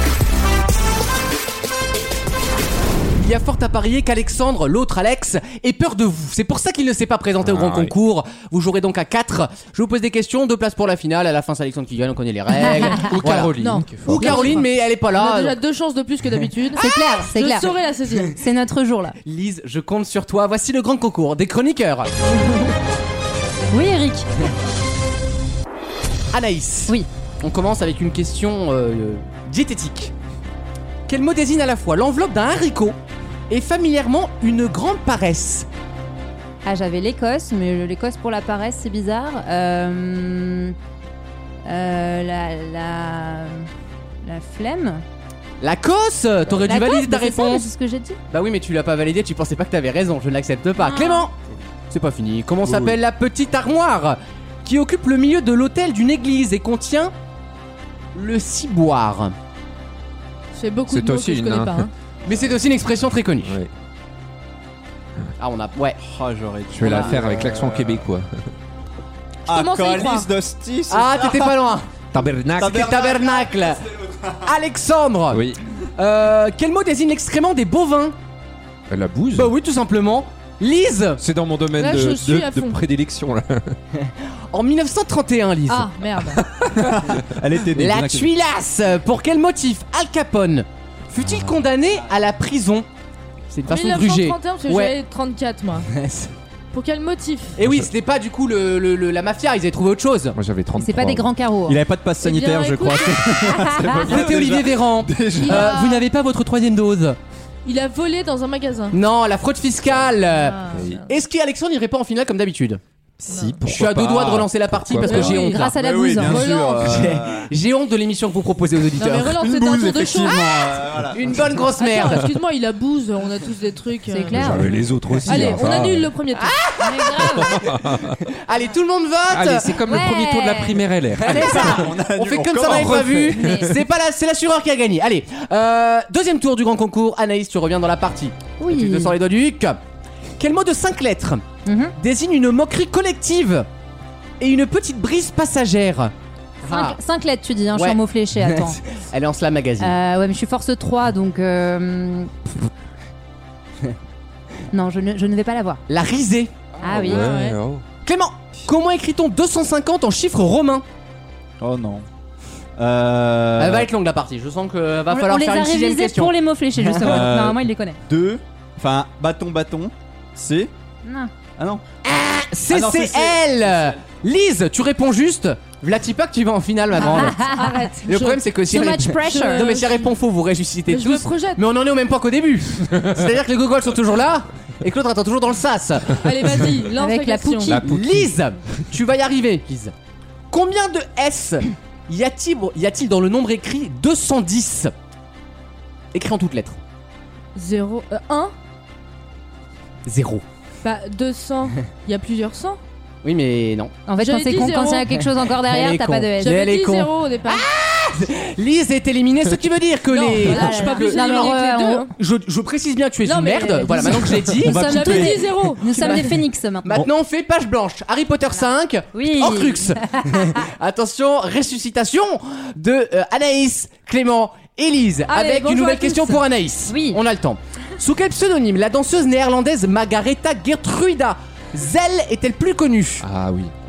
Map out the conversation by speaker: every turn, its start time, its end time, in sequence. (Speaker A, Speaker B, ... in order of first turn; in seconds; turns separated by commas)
Speaker A: 3.2-13.5, Speaker B: 7.5-7.9, Speaker B: 13.0-14.6, Speaker C: 13.6-18.4, Speaker A: 14.0-15.6, Speaker D: 16.8-17.8, Speaker D: 18.3-19.2, Speaker A: 19.2-22.1, Speaker D: 23.7-24.3, Speaker A: 26.3-30.1, Speaker A: 31.1-33.0, Speaker A: 33.5-35.7, Speaker D: 36.6-40.8, Speaker D: 41.7-43.7, Speaker D: 44.2-45.0, Speaker A: 45.6-47.7, Speaker D: 46.6-48.2, Speaker A: 48.3-51.3, Speaker D: 50.8-51.3, Speaker A: 51.9-57.1, Speaker A: 58.1-59.4, Speaker C: 60.5-61.9, Speaker B: 60.9-61.9, Speaker A: 62.3-63.6, Speaker B: 63.4-63.7, Speaker A: 65.4-66.0, Speaker E: 66.0-68.0, Speaker B: 66.7-68.4, Speaker E: 69.5-71.5, Speaker C: 69.5-70.3, Speaker A: 70.9-71.9, Speaker B: 72.1-72.9, Speaker E: 72.6-74.5, Speaker A: 72.6-73.8, Speaker A: 74.4-75.5, Speaker B: 75.3-75.6, Speaker A: 76.0-78.2, Speaker B: 78.9-79.5, Speaker A: 79.3-81.2, Speaker B: 81.2-83.8, Speaker C: 81.8-82.8, Speaker A: 84.0-85.9, Speaker C: 85.7-86.4, Speaker B: 86.6-87.1, Speaker E: 86.8-88.3, Speaker A: 87.8-92.9, Speaker B: 91.2-91.6, Speaker A: 93.5-95.0, Speaker C: 93.7-95.9, Speaker A: 95.9-96.3, Speaker C: 96.7-97.5, Speaker A: 97.6-100.4, Speaker B: 97.6-97.9, Speaker B: 100.3-101.3, Speaker D: 100.8-101.8, Speaker E: 101.7-105.8, Speaker C: 102.2-103.3, Speaker D: 103.5-104.0, Speaker A: 104.0-107.2, Speaker C: 105.4-106.1, Speaker C: 107.7-109.0, Speaker A: 108.9-112.8, Speaker C: 110.3-111.1, Speaker B: 110.7-111.1, Speaker B: 113.2-115.5, Speaker C: 113.3-113.6, Speaker A: 113.6-115.7, Speaker C: 115.1-115.5, Speaker D: 115.1-116.5, Speaker E: 115.6-117.5, Speaker C: 116.2-117.0, Speaker A: 116.7-119.3, Speaker C: 119.0-120.6, Speaker E: 119.3-121.4, Speaker A: 121.1-122.3, Speaker C: 121.8-124.6, Speaker D: 124.1-124.8, Speaker B: 124.3-126.1, Speaker C: 125.2-126.5, Speaker D: 125.3-125.6, Speaker A: 126.4-127.5, Speaker D: 126.8-127.6, Speaker B: 127.3-128.2, Speaker A: 128.3-129.8, Speaker B: 129.3-131.7, Speaker D: 129.8-131.9, Speaker A: 131.2-139.8, Speaker E: 131.3-133.4, Speaker B: 132.7-133.7, Speaker D: 133.4-133.7, Speaker D: 138.6-139.2, Speaker A: 140.4-141.4, Speaker D: 141.7-141.9, Speaker A: 142.0-143.7, Speaker A: 144.4-146.1, Speaker A: 146.6-147.0, Speaker D: 146.7-148.8, Speaker A: 147.7-149.9, Speaker D: 149.8-152.3, Speaker D: 154.7-155.8, Speaker A: 155.9-157.1, Speaker D: 156.8-157.4, Speaker B: 156.9-157.8, Speaker C: 157.1-157.6, Speaker A: 158.0-160.8, Speaker E: 161.6-162.1, Speaker E: 162.8-163.9, Speaker A: 163.6-167.3, Speaker D: 165.1-168.0, Speaker E: 167.0-170.7, Speaker D: 171.0-171.3, Speaker E: 171.6-171.8, Speaker A: 172.1-177.4, Speaker E: 172.7-173.9, Speaker D: 177.0-177.9, Speaker E: 177.0-177.4, Speaker C: 177.4-178.4, Speaker A: 178.1-186.3, Speaker D: 178.7-179.8, Speaker C: 179.0-180.1, Speaker C: 180.9-181.6, Speaker C: 186.2-187.8, Speaker D: 186.9-187.8, Speaker B: 187.7-188.3, Speaker A: 187.8-189.9, Speaker A: 190.5-194.9, Speaker A: 196.1-196.8, Speaker C: 197.6-198.5, Speaker A: 200.1-200.4, Speaker C: 200.8-202.8, Speaker A: 203.2-203.9, Speaker D: 204.1-206.6, Speaker C: 204.2-205.1, Speaker A: 205.6-214.8, Speaker C: 206.4-207.7, Speaker C: 210.1-212.1, Speaker D: 210.3-212.1, Speaker C: 213.2-216.4, Speaker D: 213.9-217.1, Speaker E: 214.6-215.7, Speaker A: 216.0-216.3, Speaker A: 216.8-233.3, Speaker D: 219.1-220.6, Speaker C: 225.3-226.4, Speaker D: 226.9-227.2, Speaker B: 233.2-233.7